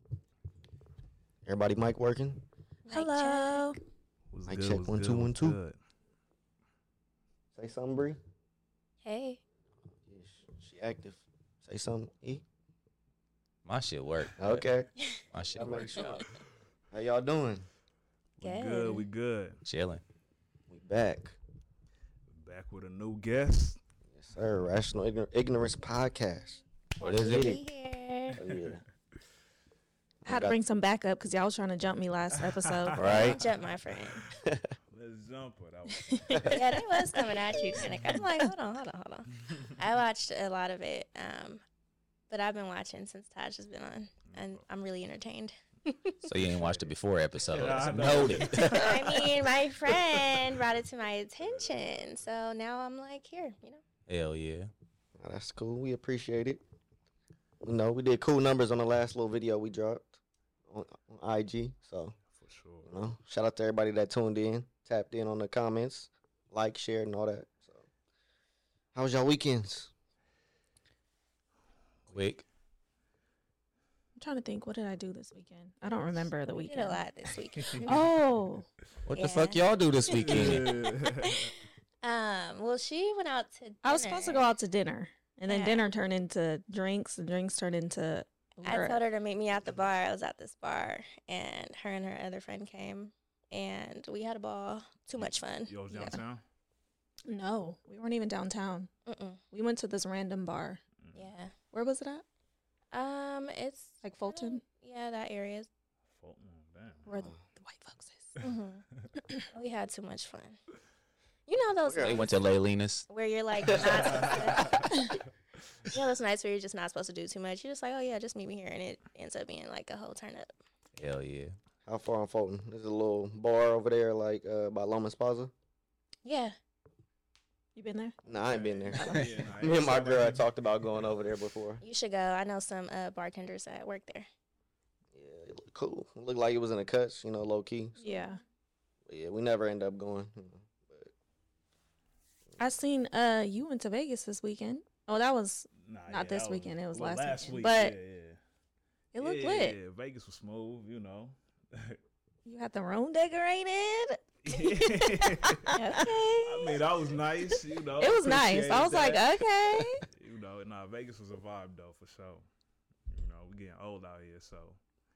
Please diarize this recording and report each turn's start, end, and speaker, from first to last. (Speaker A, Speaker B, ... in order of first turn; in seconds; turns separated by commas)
Speaker A: 1.4-2.4, Speaker B: 2.9-3.7, Speaker C: 2.9-3.8, Speaker D: 4.3-5.8, Speaker A: 4.5-5.6, Speaker A: 7.5-8.2, Speaker B: 9.0-9.4, Speaker A: 10.1-12.4, Speaker E: 13.6-14.7, Speaker A: 14.4-14.9, Speaker E: 15.3-16.2, Speaker A: 15.5-16.2, Speaker A: 16.9-17.7, Speaker B: 18.4-19.1, Speaker D: 18.4-19.6, Speaker E: 19.6-20.0, Speaker A: 20.7-21.4, Speaker D: 22.3-23.8, Speaker A: 24.1-26.6, Speaker E: 27.0-27.6, Speaker B: 27.0-28.4, Speaker A: 28.4-28.8, Speaker D: 28.4-28.8, Speaker A: 30.2-30.6, Speaker C: 30.2-33.4, Speaker D: 32.4-33.4, Speaker E: 33.0-33.4, Speaker B: 33.0-34.2, Speaker A: 34.4-34.7, Speaker D: 34.9-36.8, Speaker C: 36.1-37.4, Speaker B: 36.5-41.6, Speaker C: 38.0-38.3, Speaker B: 42.3-46.1, Speaker D: 44.3-44.6, Speaker E: 46.2-49.1, Speaker D: 47.5-49.3, Speaker B: 48.5-53.8, Speaker D: 51.4-52.0, Speaker E: 54.1-54.7, Speaker A: 55.2-56.6, Speaker A: 57.6-60.2, Speaker A: 60.7-62.1, Speaker D: 62.3-63.0, Speaker A: 62.8-67.8, Speaker A: 68.9-69.9, Speaker E: 72.1-72.4, Speaker C: 74.2-77.0, Speaker B: 76.5-77.9, Speaker C: 77.8-78.7, Speaker E: 79.1-80.7, Speaker B: 79.2-84.5, Speaker D: 80.1-81.5, Speaker C: 83.8-89.0, Speaker B: 85.5-85.9, Speaker B: 88.6-95.8, Speaker D: 95.7-96.4, Speaker C: 95.9-96.2, Speaker C: 97.3-98.9, Speaker B: 99.0-99.4, Speaker C: 99.5-100.8, Speaker D: 101.0-101.3, Speaker B: 101.1-101.5, Speaker C: 101.7-102.2, Speaker B: 102.9-105.7, Speaker C: 104.0-104.6, Speaker D: 106.1-107.0, Speaker C: 107.0-108.4, Speaker A: 107.1-107.4, Speaker B: 108.4-108.8, Speaker B: 109.5-110.6, Speaker B: 111.5-112.4, Speaker A: 111.8-112.2, Speaker E: 112.0-113.1, Speaker B: 113.1-115.1, Speaker A: 113.7-114.0, Speaker D: 113.8-115.1, Speaker B: 115.9-120.5, Speaker E: 121.0-121.5, Speaker A: 121.8-125.5, Speaker B: 126.2-126.5, Speaker C: 127.8-128.2, Speaker A: 128.2-131.8, Speaker D: 128.3-130.4, Speaker C: 128.9-129.2, Speaker B: 131.8-134.3, Speaker A: 135.1-138.0, Speaker C: 138.0-138.4, Speaker B: 138.0-138.3, Speaker A: 139.1-141.1, Speaker C: 142.6-147.9, Speaker D: 145.8-148.4, Speaker C: 149.1-149.8, Speaker D: 149.2-152.0, Speaker C: 152.4-156.8, Speaker D: 154.4-159.3, Speaker B: 155.8-156.5, Speaker C: 158.0-160.0, Speaker D: 160.1-162.4, Speaker D: 163.1-164.8